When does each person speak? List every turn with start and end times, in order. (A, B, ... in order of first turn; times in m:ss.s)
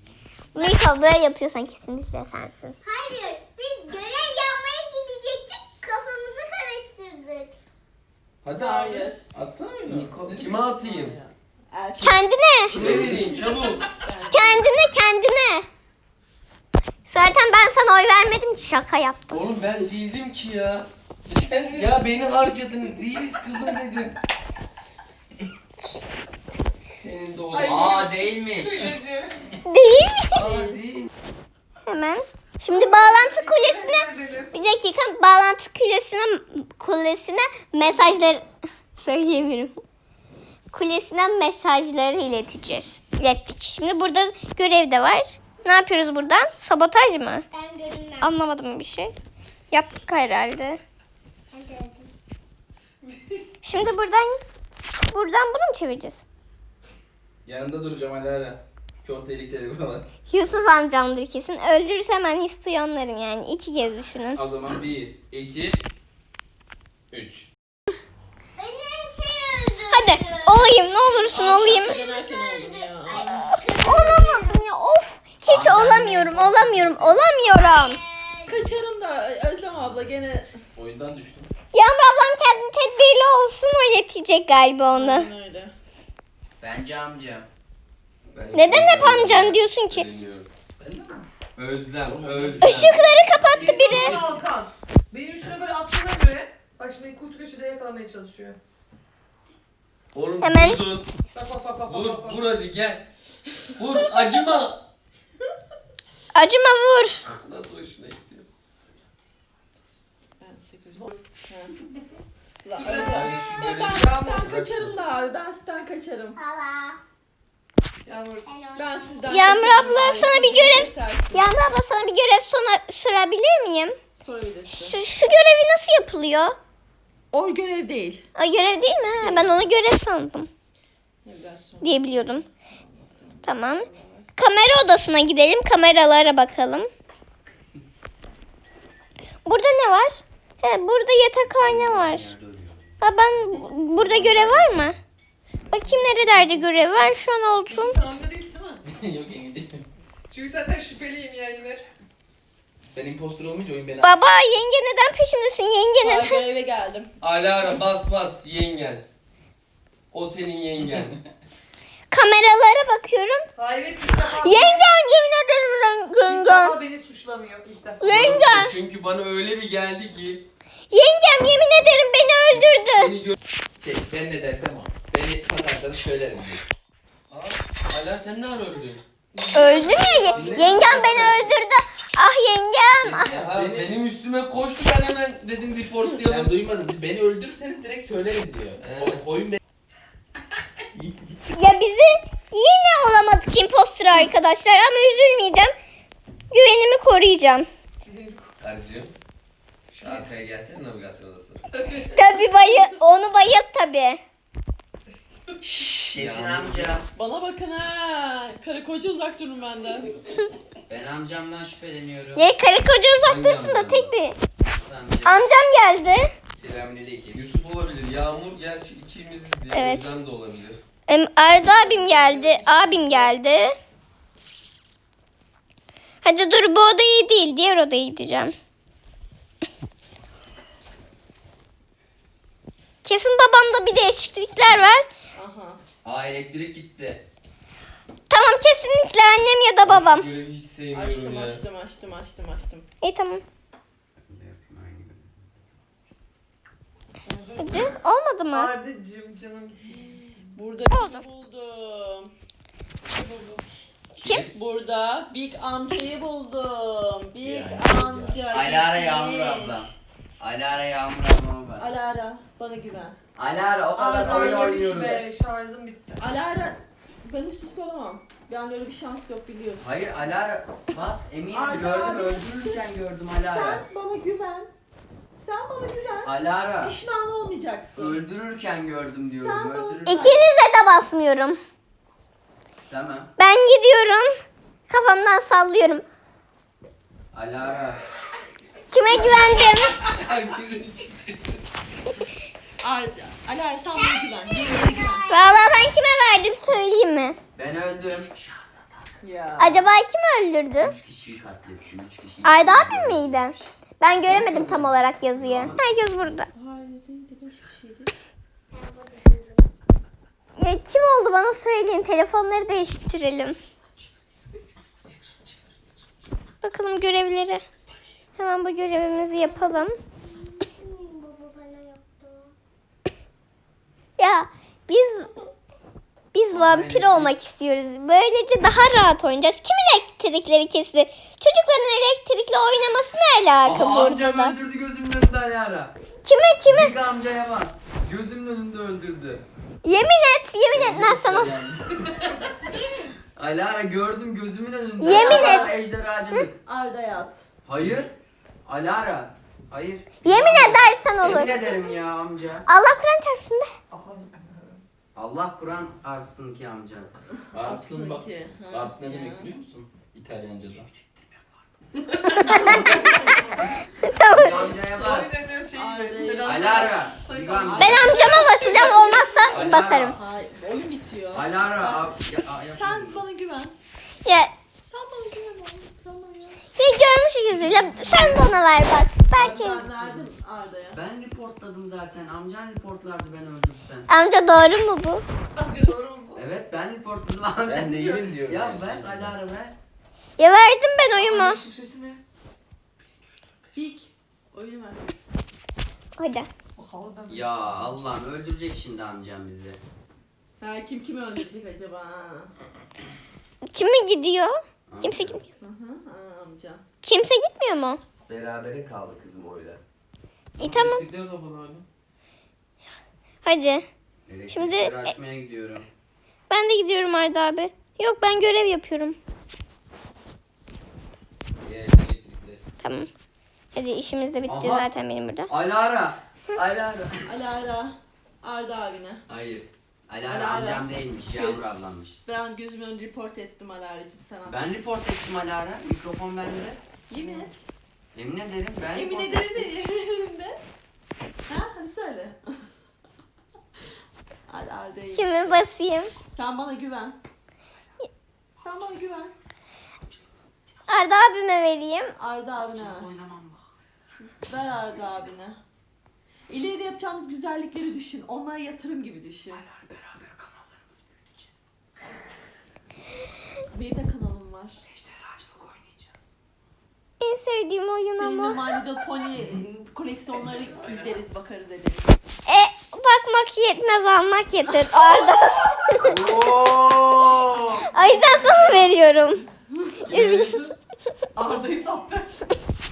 0:00.5-0:02.7 A
0:02.8-0:07.5 B
0:08.4-0:10.5 C
0:08.5-0:09.2 D
0:09.8-0:11.2 E
0:10.4-0:12.2 D
0:12.0-0:12.8 A
0:12.7-0:13.9 E
0:12.7-0:13.5 C
0:12.8-0:14.7 D
0:14.3-0:15.7 A
0:17.1-0:19.4 A
0:19.3-0:20.9 E
0:21.3-0:21.9 C
0:21.4-0:24.2 E
0:26.7-0:28.1 E
0:27.5-0:29.6 F
0:27.6-0:29.0 G
0:29.6-0:30.4 A
0:30.3-0:31.1 G
0:31.8-0:38.4 A
0:32.7-0:34.5 F
0:39.0-0:39.7 A
0:40.7-0:47.4 A
0:47.5-0:48.3 B
0:48.2-0:49.1 A
0:49.7-0:50.8 A
0:51.5-0:52.1 B
0:53.6-0:54.4 A
0:55.1-0:56.2 A
0:57.4-1:00.0 C
1:00.3-1:04.4 A
1:04.3-1:05.8 C
1:07.1-1:07.5 C
1:08.6-1:14.6 B
1:09.9-1:11.9 A
1:11.3-1:14.1 D
1:13.8-1:18.0 A
1:15.5-1:16.0 E
1:15.5-1:16.9 C
1:17.2-1:18.7 B
1:18.5-1:20.5 D
1:20.8-1:21.5 C
1:21.7-1:25.3 A
1:24.9-1:25.7 D
1:26.6-1:27.5 G
1:28.3-1:30.5 E
1:28.5-1:30.0 A
1:30.8-1:31.2 C
1:31.6-1:33.4 E
1:32.0-1:33.1 C
1:32.6-1:34.2 A
1:33.5-1:38.6 F
1:40.1-1:41.1 E
1:40.4-1:40.8 A
1:41.3-1:42.5 F
1:41.8-1:43.1 E
1:43.7-1:44.8 E
1:46.3-1:47.2 A
1:47.2-1:48.5 E
1:50.4-1:51.7 D
1:52.6-1:56.4 D
1:52.7-1:54.6 F
1:52.8-1:54.9 E
1:56.3-1:57.0 B
1:58.0-1:58.5 F
1:58.4-1:59.5 B
1:58.7-2:01.6 D
1:59.3-2:04.0 A
2:04.2-2:05.0 D
2:04.7-2:06.6 A
2:07.3-2:08.3 D
2:08.4-2:10.5 A
2:09.2-2:09.5 D
2:11.2-2:12.4 D
2:11.8-2:12.4 A
2:13.2-2:14.3 D
2:13.4-2:13.8 A
2:14.4-2:16.9 A
2:19.4-2:22.3 A
2:21.5-2:23.0 G
2:23.0-2:25.0 A
2:24.2-2:24.7 G
2:25.7-2:28.0 A
2:25.8-2:27.1 F
2:27.6-2:28.9 F
2:28.8-2:29.8 C
2:30.3-2:31.8 F
2:32.9-2:34.2 C
2:34.0-2:36.4 A
2:36.0-2:37.1 D
2:37.2-2:39.0 E
2:40.1-2:41.2 E
2:42.1-2:43.4 A
2:43.6-2:44.9 F
2:44.3-2:46.8 A
2:46.3-2:48.2 F
2:48.0-2:48.8 A
2:48.1-2:50.4 E
2:50.9-2:53.1 A
2:52.7-2:53.4 E
2:53.8-2:56.6 C
2:57.3-2:59.0 E
2:59.3-3:01.5 F
2:59.5-3:03.3 A
3:00.3-3:01.5 E
3:03.0-3:06.6 E
3:03.2-3:04.0 C
3:06.1-3:09.5 C
3:08.8-3:09.6 E
3:10.9-3:11.3 C
3:11.5-3:15.7 A
3:16.5-3:17.7 A
3:18.0-3:18.5 F
3:18.6-3:19.1 E
3:20.0-3:21.6 E
3:21.7-3:22.2 F
3:22.1-3:24.2 A
3:25.6-3:26.1 D
3:25.8-3:27.0 G
3:26.1-3:27.0 E
3:27.1-3:30.2 D
3:30.9-3:32.5 G
3:32.4-3:34.4 A
3:33.2-3:34.1 E
3:34.7-3:35.4 G
3:35.2-3:36.3 A
3:36.6-3:37.4 C
3:37.3-3:40.8 E
3:39.7-3:40.1 A
3:41.1-3:43.8 A
3:41.6-3:43.3 D
3:46.2-3:48.5 A
3:53.0-3:55.1 A
3:55.3-3:55.8 D
3:56.0-3:57.3 G
3:58.3-4:00.3 A
3:59.8-4:01.6 E
4:00.9-4:02.9 D
4:03.0-4:03.4 A
4:04.2-4:05.6 G
4:07.3-4:07.9 F
4:07.3-4:07.6 D
4:07.6-4:08.7 A
4:08.5-4:10.1 F
4:10.0-4:12.3 D
4:10.9-4:11.2 A
4:13.0-4:13.6 F
4:14.2-4:14.5 A
4:14.2-4:19.9 D
4:17.4-4:18.4 C
4:18.5-4:21.9 G
4:21.8-4:23.2 D
4:23.4-4:25.3 G
4:23.9-4:26.2 F
4:24.3-4:24.6 D
4:26.2-4:29.9 D
4:29.8-4:33.8 G
4:31.5-4:32.5 F
4:32.4-4:32.8 D
4:33.4-4:34.7 D
4:35.3-4:38.2 D
4:36.2-4:36.9 G
4:38.0-4:40.4 G
4:39.3-4:40.3 D
4:40.0-4:41.6 A
4:42.9-4:43.3 G
4:43.4-4:44.3 A
4:44.9-4:46.0 A
4:47.3-4:48.1 G
4:48.9-4:50.0 A
4:49.2-4:51.6 C
4:52.8-4:55.3 D
4:54.6-4:55.9 B
4:55.3-4:57.4 A
4:57.5-4:59.1 G
4:59.2-4:59.9 D
4:59.6-5:00.9 A
5:00.8-5:03.6 G
5:02.4-5:06.5 A
5:04.2-5:05.8 G
5:06.5-5:08.1 D
5:08.7-5:09.6 B
5:10.6-5:13.6 A
5:16.6-5:17.6 A
5:18.4-5:20.0 A
5:19.4-5:22.5 B
5:24.2-5:25.3 A
5:26.3-5:34.5 A
5:26.5-5:27.3 G
5:33.6-5:35.9 G
5:36.2-5:36.9 A
5:36.7-5:39.4 G
5:39.8-5:41.5 A
5:41.0-5:42.1 G
5:43.4-5:46.5 G
5:45.0-5:45.8 A
5:45.0-5:45.8 D
5:46.6-5:47.4 D
5:47.6-5:48.1 G
5:48.6-5:52.6 G
5:50.2-5:51.6 A
5:52.7-5:53.7 A
5:53.9-5:54.8 F
5:55.1-5:57.1 G
5:57.5-6:00.9 C
5:57.5-5:59.5 D
6:02.2-6:03.0 C
6:02.4-6:03.5 F
6:02.4-6:03.4 D
6:04.0-6:04.5 A
6:04.2-6:05.4 G
6:04.4-6:08.2 F
6:05.7-6:07.0 D
6:06.4-6:08.4 G
6:07.5-6:12.1 D
6:07.8-6:10.2 A
6:09.5-6:10.2 G
6:11.3-6:13.2 G
6:12.7-6:13.7 D
6:14.2-6:14.5 A
6:14.8-6:16.6 D
6:16.8-6:19.8 A
6:18.2-6:18.4 G
6:19.3-6:21.0 D
6:20.9-6:24.1 G
6:24.1-6:25.2 A
6:25.6-6:26.5 F
6:26.3-6:29.8 G
6:27.7-6:29.4 E
6:30.4-6:31.6 A
6:31.1-6:32.2 F
6:33.7-6:35.1 D
6:36.2-6:36.5 A
6:36.8-6:38.0 F
6:37.3-6:39.8 G
6:40.6-6:42.5 D
6:43.7-6:45.4 A
6:44.9-6:45.4 G
6:45.6-6:46.8 D
6:47.0-6:48.0 A
6:48.2-6:49.8 E
6:50.6-6:51.0 A
6:50.6-6:51.8 C
6:53.4-6:53.8 A
6:54.2-6:55.9 G
6:54.5-6:55.1 A
6:56.5-6:59.2 A
7:01.6-7:02.6 E
7:02.8-7:03.1 A
7:03.7-7:05.5 A
7:04.4-7:04.9 G
7:05.5-7:07.3 G
7:07.3-7:09.2 D
7:09.3-7:12.2 G
7:10.2-7:11.6 D
7:12.2-7:14.7 D
7:14.4-7:17.4 G
7:17.1-7:17.6 D
7:18.1-7:19.7 G
7:18.9-7:20.6 D
7:21.5-7:22.7 D
7:24.5-7:25.6 D
7:25.1-7:26.1 A
7:26.3-7:27.2 D
7:28.6-7:29.3 D
7:30.9-7:32.1 A
7:32.2-7:33.1 D
7:32.8-7:33.1 F
7:33.2-7:33.6 G
7:34.3-7:35.6 D
7:36.5-7:39.6 D
7:43.7-7:44.8 D
7:47.2-7:48.6 A
7:48.2-7:52.2 D
7:52.5-7:56.1 A
7:56.0-7:57.8 G
7:57.9-7:59.4 A
7:58.1-7:58.9 F
8:00.1-8:00.7 F
8:00.1-8:00.4 C
8:00.1-8:00.5 A
8:01.3-8:02.4 F